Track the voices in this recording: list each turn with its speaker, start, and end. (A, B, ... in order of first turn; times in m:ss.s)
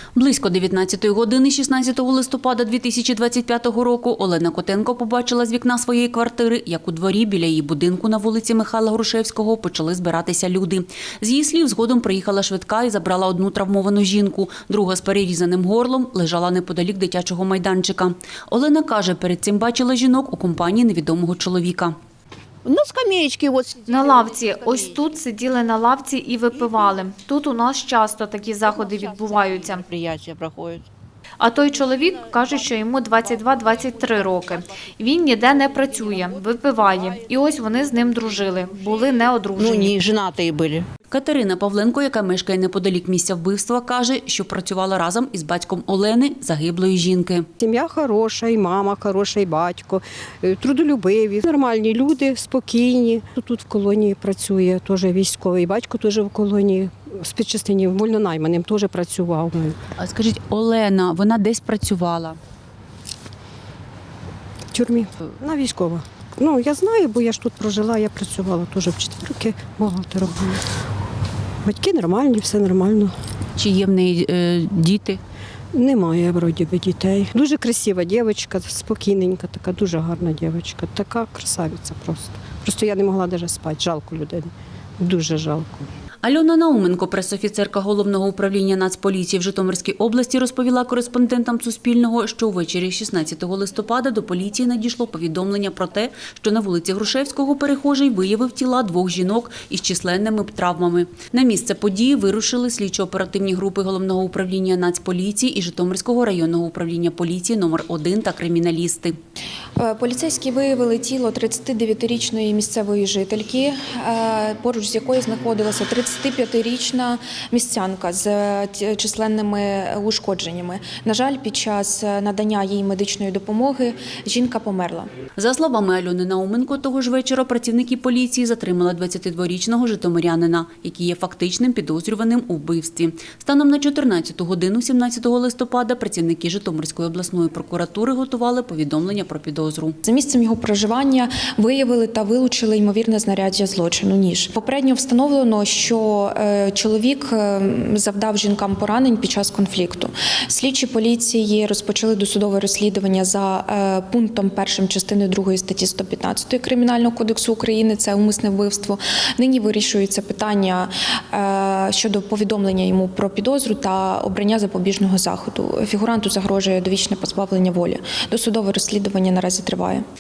0:00.2-0:22.0 A
0:22.6-0:25.2 B
0:23.9-0:29.8 C
0:26.5-0:27.0 B
0:28.6-0:30.8 B
0:31.4-0:39.9 C
0:32.3-0:32.6 B
0:33.2-0:34.6 B
0:35.5-0:40.9 B
0:41.1-0:47.5 A
0:47.6-0:59.8 D
1:00.0-1:02.4 A
1:04.7-1:10.6 D
1:11.6-1:13.1 D
1:13.6-1:15.2 A
1:15.7-1:25.9 D
1:26.2-1:49.2 A
1:49.8-2:05.1 E
2:05.4-2:20.0 A
2:20.0-2:50.0 E